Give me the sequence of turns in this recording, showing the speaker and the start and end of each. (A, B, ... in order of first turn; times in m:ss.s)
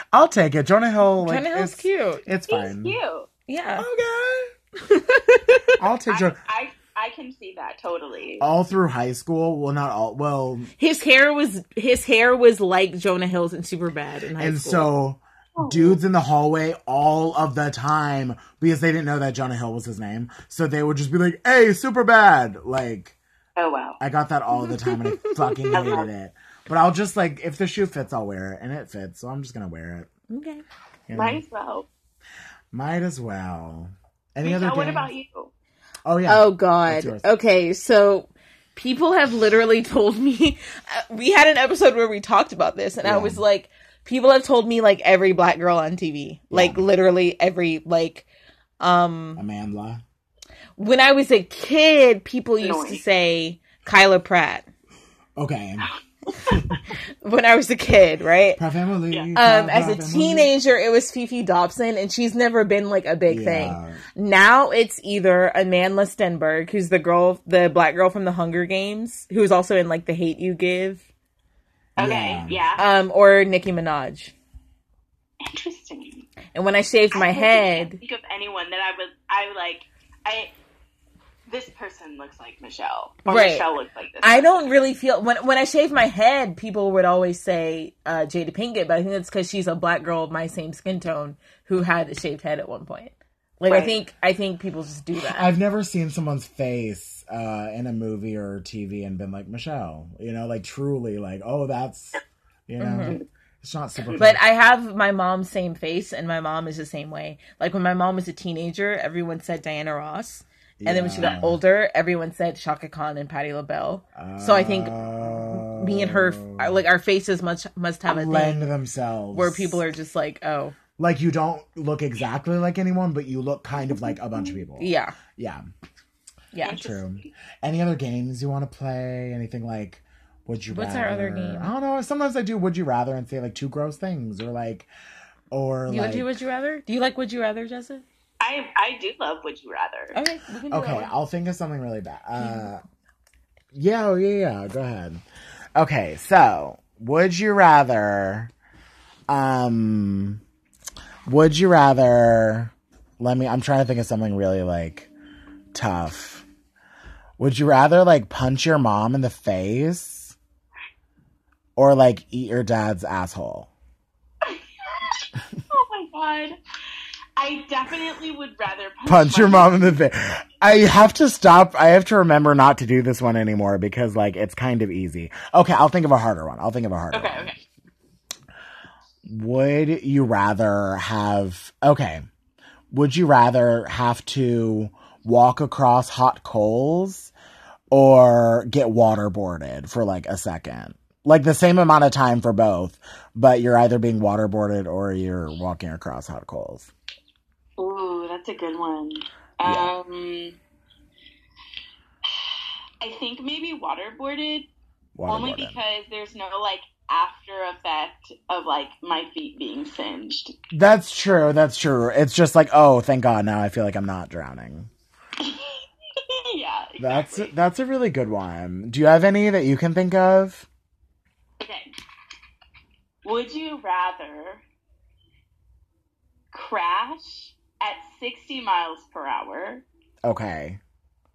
0:00.1-0:03.0 A
0:01.2-0:02.2 B
0:02.5-0:03.3 C
0:03.5-0:03.8 B
0:03.8-0:04.5 A
0:04.8-0:05.8 B
0:05.8-0:06.4 A
0:06.1-0:08.5 C
0:08.4-0:10.7 A
0:10.8-0:14.9 B
0:14.4-0:23.2 A
0:15.6-0:16.0 C
0:23.6-0:24.0 C
0:24.0-0:30.1 A
0:24.7-0:26.0 B
0:25.7-0:26.1 C
0:30.3-0:30.6 B
0:31.1-0:31.4 A
0:31.1-0:31.9 C
0:32.7-0:35.1 A
0:34.4-0:35.5 C
0:36.0-0:37.2 A
0:36.3-0:48.2 B
0:43.0-0:43.4 A
0:46.5-0:46.8 A
0:48.8-0:49.4 B
0:49.4-0:50.0 A
0:50.8-0:54.7 B
0:52.6-0:53.0 C
0:55.4-0:55.9 A
0:56.5-0:56.7 C
0:56.5-0:56.8 A
0:57.2-0:58.6 B
0:58.6-1:00.5 A
0:59.4-1:11.0 B
1:03.3-1:04.0 A
1:12.0-1:12.7 A
1:12.0-1:12.8 C
1:12.8-1:14.3 B
1:15.4-1:16.3 C
1:16.5-1:18.0 B
1:17.1-1:20.5 C
1:21.5-1:24.7 C
1:23.2-1:23.7 B
1:24.2-1:35.5 B
1:33.7-1:34.0 C
1:35.2-1:44.4 A
1:42.8-1:43.2 B
1:44.2-1:58.7 B
1:50.8-1:51.6 A
1:54.2-1:56.8 A
1:58.1-1:59.8 A
1:59.3-2:00.7 B
2:01.0-2:05.6 A
2:04.8-2:05.2 B
2:06.5-2:06.8 B
2:06.6-2:07.3 C
2:06.7-2:14.9 A
2:10.7-2:11.7 B
2:15.5-2:16.3 A
2:15.9-2:18.0 B
2:18.4-2:20.2 C
2:20.1-2:21.1 B
2:20.7-2:22.8 A
2:23.7-2:25.2 A
2:25.7-2:28.5 A
2:29.3-2:30.4 A
2:31.3-2:35.1 A
2:35.7-2:36.4 A
2:37.4-2:40.4 A
2:41.8-2:43.7 A
2:44.4-2:46.6 C
2:47.4-2:49.9 C
2:49.0-2:57.5 A
2:57.1-2:57.6 C
2:59.2-3:02.2 A
3:02.9-3:07.3 A
3:07.9-3:16.9 A
3:17.8-3:20.6 C
3:19.6-3:19.9 A
3:22.3-3:24.7 C
3:25.1-3:25.8 A
3:25.2-3:30.5 C
3:30.7-3:34.9 A
3:35.4-3:37.5 C
3:37.0-3:40.7 A
3:41.6-3:41.9 C
3:43.2-3:44.6 C
3:46.5-3:49.8 C
3:50.2-3:50.8 A